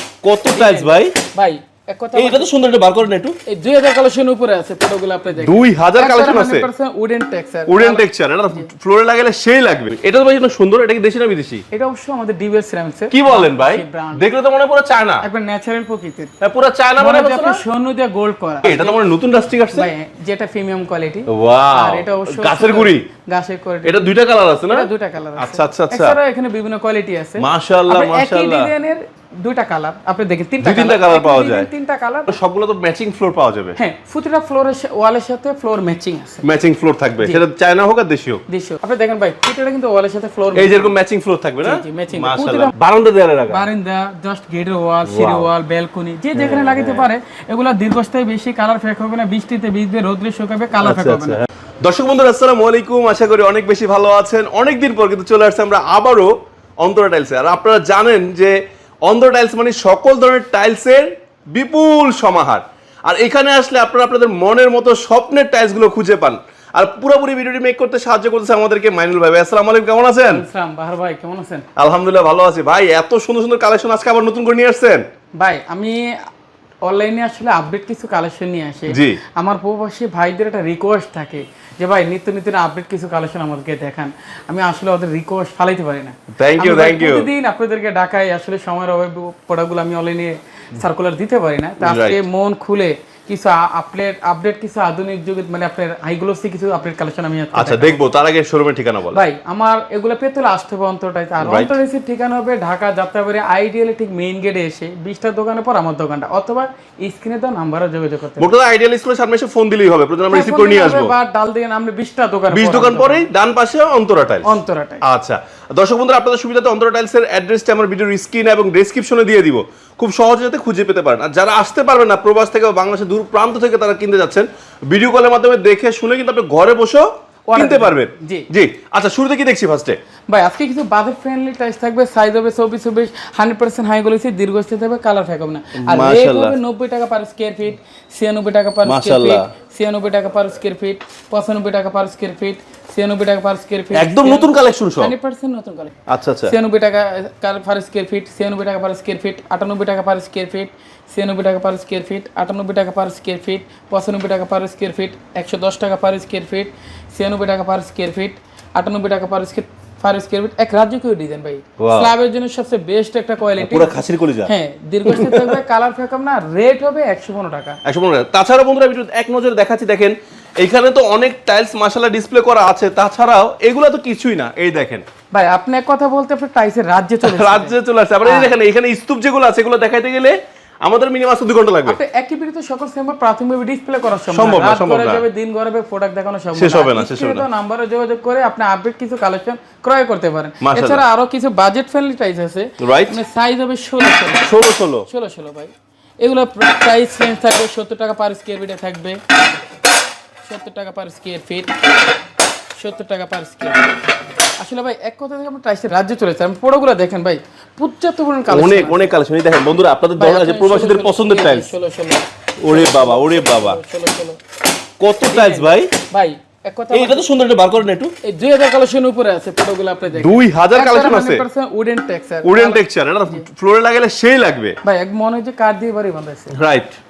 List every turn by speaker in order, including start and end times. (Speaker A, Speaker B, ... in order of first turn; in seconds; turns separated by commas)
Speaker A: 0.2-1.1, Speaker B: 0.5-2.5, Speaker A: 2.1-3.4, Speaker B: 3.5-8.7, Speaker A: 5.4-6.7, Speaker A: 7.7-11.6, Speaker B: 11.7-14.2, Speaker A: 13.1-15.2, Speaker B: 15.2-16.3, Speaker A: 16.4-17.6, Speaker B: 17.0-18.9, Speaker A: 18.6-19.9, Speaker B: 19.7-24.1, Speaker A: 21.3-23.1, Speaker A: 23.8-26.2, Speaker B: 24.6-32.4, Speaker A: 27.4-28.7, Speaker A: 30.6-31.7, Speaker A: 32.3-33.8, Speaker B: 33.8-36.4, Speaker A: 36.4-38.4, Speaker B: 38.5-40.9, Speaker A: 40.5-43.6, Speaker B: 41.6-42.7, Speaker B: 43.5-51.4, Speaker A: 45.0-45.5, Speaker A: 46.3-47.1, Speaker A: 50.8-70.4, Speaker B: 70.3-71.7, Speaker A: 71.8-75.0, Speaker B: 75.4-76.2, Speaker B: 76.8-98.0, Speaker A: 78.9-79.2, Speaker A: 86.3-87.3, Speaker A: 91.8-92.2, Speaker A: 97.5-99.2, Speaker B: 99.1-108.5, Speaker A: 101.4-101.8, Speaker A: 108.4-111.1, Speaker B: 110.3-113.3, Speaker A: 112.5-130.0, Speaker B: 114.4-115.0, Speaker B: 127.5-128.5, Speaker B: 130.3-167.8, Speaker A: 135.8-136.6, Speaker A: 138.8-139.4, Speaker A: 143.9-145.1, Speaker A: 146.1-146.5, Speaker A: 161.8-162.1, Speaker A: 163.6-164.5, Speaker A: 165.1-165.6, Speaker A: 167.8-175.0, Speaker B: 175.3-178.5, Speaker A: 177.2-182.0, Speaker B: 181.8-194.5, Speaker A: 184.3-185.3, Speaker A: 186.5-187.5, Speaker A: 190.6-191.0, Speaker A: 192.8-193.2, Speaker A: 194.4-195.1, Speaker B: 195.1-199.2, Speaker B: 200.5-201.7, Speaker B: 202.8-203.9, Speaker B: 204.6-209.1, Speaker A: 208.5-211.7, Speaker B: 210.2-214.4, Speaker A: 212.6-213.8, Speaker A: 215.0-215.9, Speaker B: 215.3-217.2, Speaker A: 216.9-218.1, Speaker B: 218.2-223.4, Speaker A: 220.1-221.4, Speaker A: 222.4-224.8, Speaker B: 224.8-226.6, Speaker A: 226.5-227.0